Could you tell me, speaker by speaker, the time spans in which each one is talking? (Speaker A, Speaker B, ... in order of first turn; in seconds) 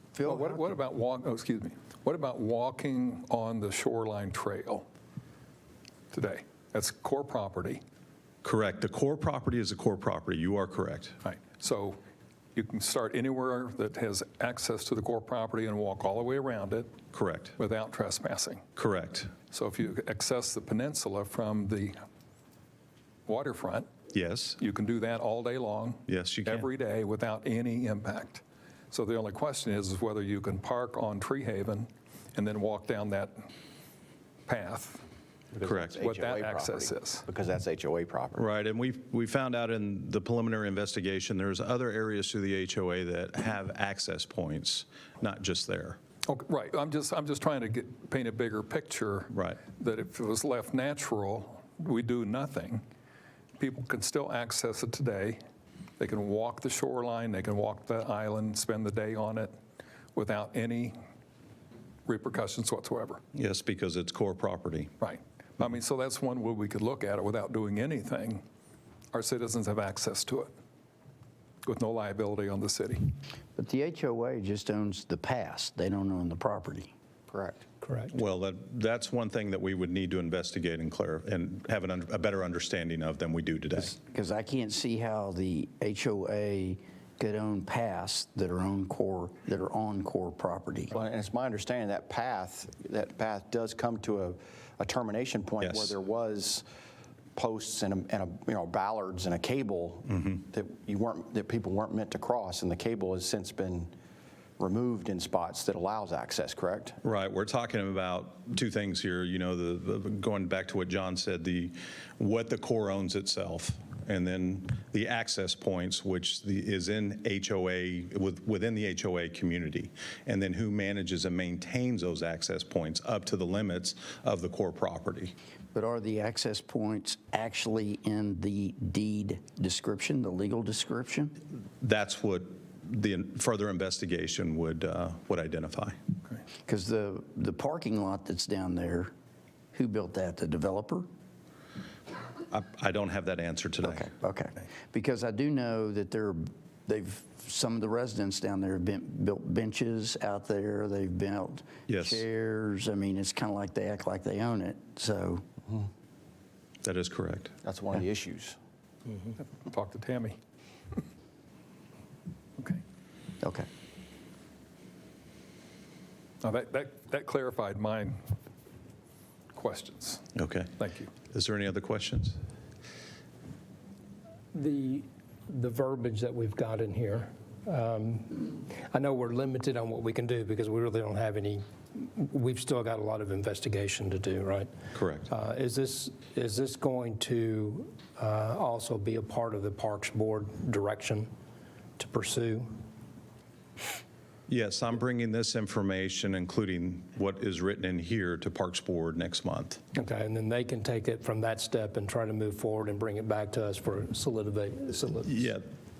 Speaker A: 0.2-4.8, 6.1-7.8, 11.2-12.0, 12.6-16.9, 17.6-18.6, 19.5-22.0, 23.3-23.9, 24.6-33.4, 34.5-35.0, 36.0-37.2, 46.2-52.8, 53.6-55.4, 56.0-59.5, 60.1-61.0, 62.0-63.2, 65.0-68.4, 69.1-70.5, 71.6-73.1, 159.5-160.4, 166.4-168.2, 169.5-170.2, 170.8-171.1
Speaker B: 8.4-11.2, 17.1-17.5, 18.8-19.3, 24.1-24.6, 26.1-26.7, 35.6-36.0, 38.3-46.0, 49.3-49.6, 63.3-64.9, 78.1-83.9, 95.6-95.9, 107.0-125.3, 131.8-136.0, 142.5-144.1, 151.9-152.2, 156.8-157.5, 170.3-170.7, 171.3-172.4, 184.9-185.3, 194.5-199.8, 205.2-205.6
Speaker C: 35.5-38.5, 77.3-77.6, 90.9-96.6, 97.3-103.9, 104.6-107.0, 157.6-158.6
Speaker D: 73.5-76.9, 83.8-90.9, 125.7-131.3, 136.7-139.1, 139.7-141.1, 143.8-155.4, 163.4-163.7
Speaker E: 77.8-78.1, 174.5-184.7, 185.3-191.3, 192.0-192.7, 199.9-205.5